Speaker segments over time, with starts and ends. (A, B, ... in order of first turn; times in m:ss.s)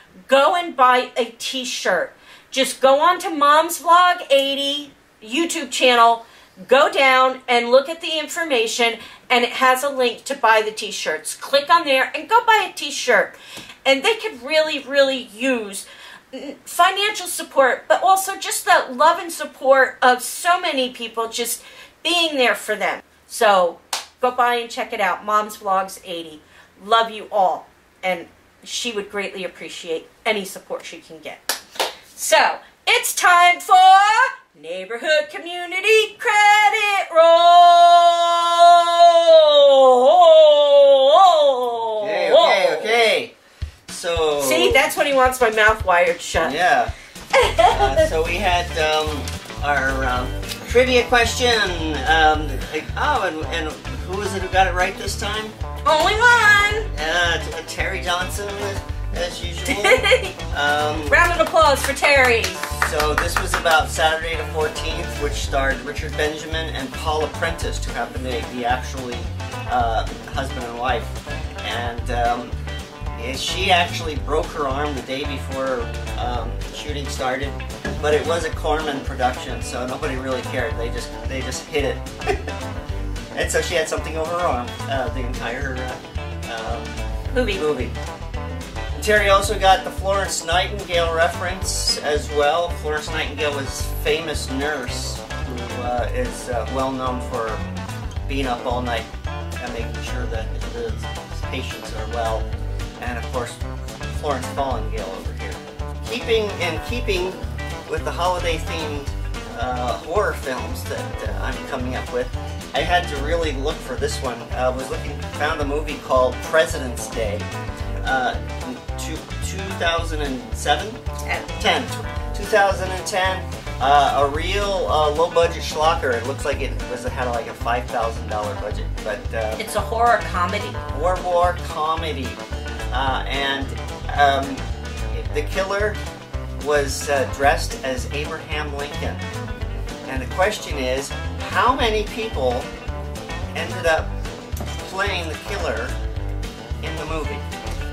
0:00.3-0:31.6 A
0:32.1-0:43.0 A
0:42.0-0:43.3 B
0:43.9-0:44.8 B
0:44.4-0:46.5 A
0:46.4-0:46.9 B
0:47.3-0:48.1 A
0:47.7-0:55.5 B
0:55.8-0:56.9 A
0:56.9-1:01.2 B
0:59.7-1:00.4 A
1:01.1-1:02.6 A
1:02.7-1:12.5 B
1:13.1-1:22.4 B
1:23.3-1:28.0 B
1:27.3-1:27.7 A
1:29.0-1:37.6 B
1:38.3-1:39.1 B
1:39.6-1:42.5 B
1:43.0-1:57.4 B
1:58.0-2:01.0 B
2:01.2-2:01.6 A
2:01.6-2:09.6 B
2:09.6-2:10.8 A
2:10.9-2:16.0 B
2:16.6-2:19.2 B
2:20.0-2:22.7 B
2:23.5-2:24.1 B
2:24.8-2:25.9 B
2:26.8-2:27.4 B